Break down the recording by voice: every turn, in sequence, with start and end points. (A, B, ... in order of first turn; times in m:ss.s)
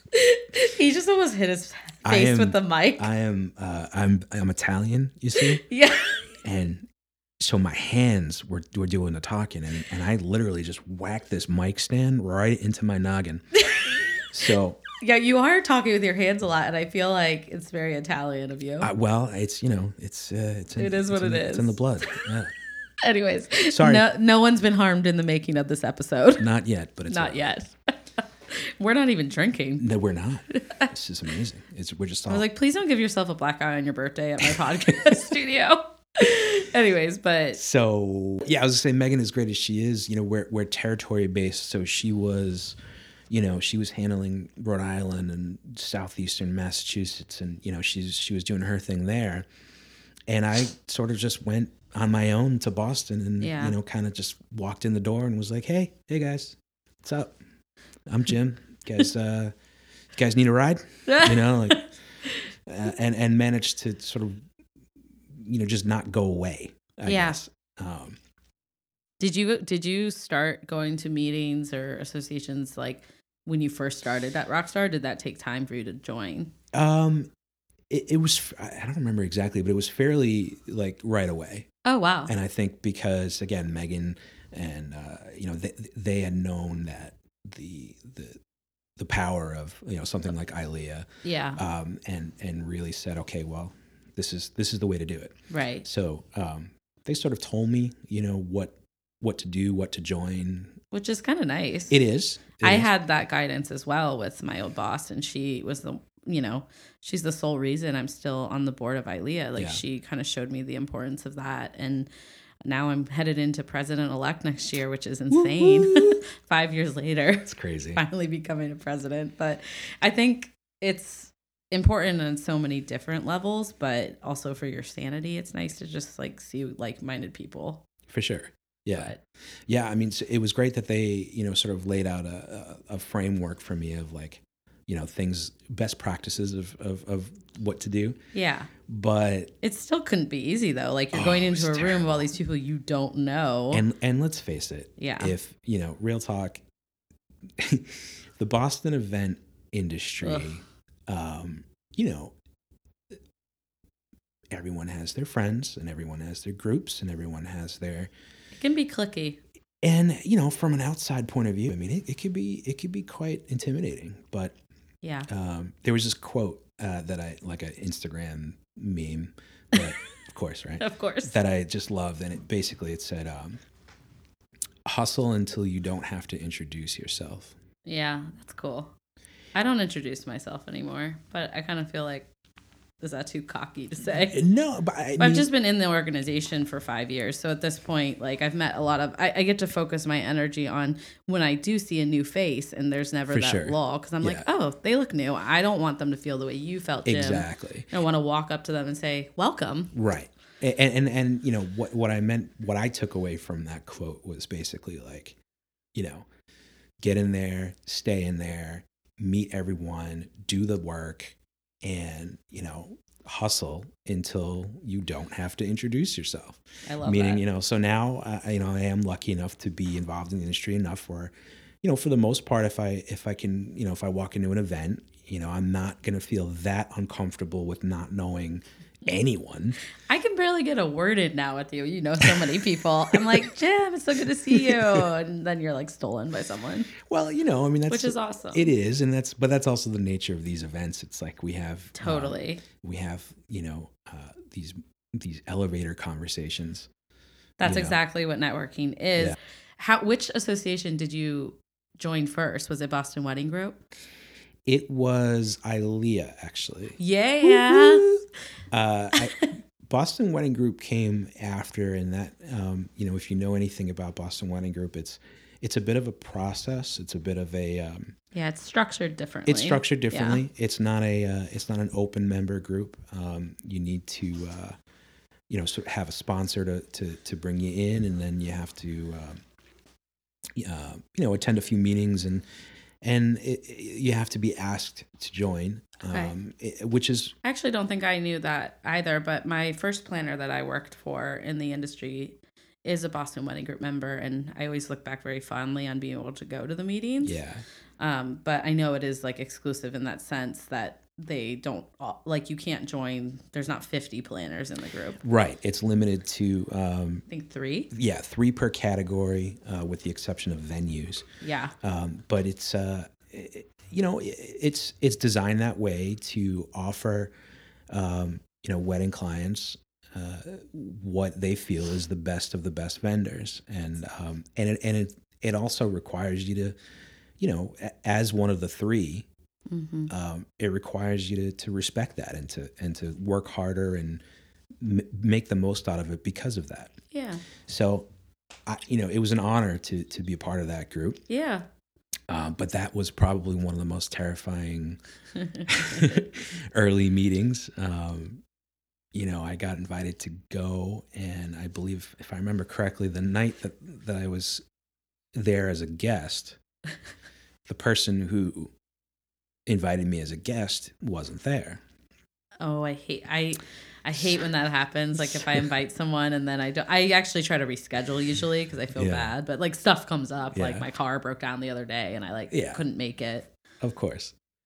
0:00.1-0:03.1 A
0:02.0-0:05.6 B
0:05.4-0:06.2 A
0:06.4-0:06.9 B
0:07.4-0:13.4 B
0:13.6-0:14.3 A
0:14.3-0:14.8 B
0:15.0-0:18.9 A
0:18.8-0:22.5 B
0:20.8-0:21.8 A
0:23.0-0:26.5 A
0:23.7-0:24.1 B
0:26.4-0:27.4 B
0:27.1-0:27.9 A
0:28.5-0:29.8 A
0:29.8-0:32.4 B
0:30.5-0:30.9 A
0:32.3-0:37.6 A
0:34.4-0:35.2 B
0:37.6-0:42.8 B
0:43.3-0:49.4 B
0:50.3-0:57.3 B
0:53.4-0:53.8 A
0:58.1-0:59.5 B
1:00.1-1:01.8 B
1:01.1-1:02.4 A
1:02.7-1:04.4 B
1:05.3-1:08.2 B
1:07.0-1:07.4 A
1:09.2-1:16.5 A
1:16.7-1:17.3 B
1:17.9-1:21.7 B
1:21.8-1:22.3 A
1:22.3-1:28.4 B
1:29.0-1:40.8 B
1:31.2-1:31.6 A
1:35.5-1:35.8 A
1:40.9-1:42.0 A
1:41.9-1:42.9 B
1:42.6-1:52.1 A
1:49.6-1:49.8 B
1:52.6-2:07.8 A
1:55.3-1:56.2 B
1:57.4-1:58.0 B
2:08.1-2:09.1 B
2:08.9-2:09.2 A
2:09.7-2:18.2 B
2:18.3-2:18.7 A
2:18.8-2:19.5 B
2:19.6-2:23.8 A
2:21.1-2:22.3 B
2:23.7-2:26.6 B
2:25.0-2:25.3 A
2:27.6-2:32.3 B
2:30.2-2:30.5 A
2:34.5-2:38.1 B
2:38.6-2:39.4 A
2:39.8-2:44.6 B
2:45.0-2:45.3 A
2:45.3-2:53.6 B
2:50.8-2:51.3 A
2:54.8-2:57.6 B
2:57.8-2:58.9 A
2:59.5-3:02.3 A
3:03.0-3:04.4 A
3:04.2-3:05.5 B
3:05.2-3:19.9 A
3:13.3-3:14.4 B
3:17.0-3:17.9 B
3:19.9-3:25.4 B
3:25.9-3:26.3 B
3:27.0-3:49.8 B
3:36.8-3:37.4 A
3:50.1-3:56.9 A
3:52.2-3:53.5 B
3:54.5-3:55.1 B
3:57.0-4:06.9 B
3:57.9-3:58.7 A
4:02.0-4:02.6 A
4:07.6-4:13.8 A
4:07.6-4:08.0 B
4:14.6-4:28.1 B
4:17.0-4:18.1 A
4:28.3-4:30.4 A
4:29.5-4:34.8 B
4:35.5-4:39.4 B
4:40.6-4:42.4 B
4:43.0-4:47.3 B
4:47.4-4:57.4 A
4:57.2-4:57.6 B
4:58.0-5:05.2 A
5:05.2-5:07.2 B
5:07.3-5:07.9 A
5:07.9-5:11.2 B
5:11.4-5:11.7 A
5:11.8-5:17.3 B
5:17.9-5:26.8 B
5:27.4-5:29.3 B
5:29.7-5:30.1 A
5:30.1-5:34.2 B
5:34.8-5:37.0 B
5:37.1-5:37.4 A
5:37.6-5:38.1 B
5:38.6-5:41.2 B
5:41.3-5:41.6 A
5:42.3-5:45.0 B
5:45.4-5:46.1 A
5:45.6-5:48.4 B
5:49.1-5:54.6 B
5:55.3-5:56.6 B
5:57.7-5:58.7 B
5:59.6-6:01.8 B
6:02.6-6:13.5 A
6:05.2-6:05.6 B
6:08.9-6:09.3 B
6:10.5-6:10.9 B
6:12.5-6:12.8 B
6:13.8-6:14.3 B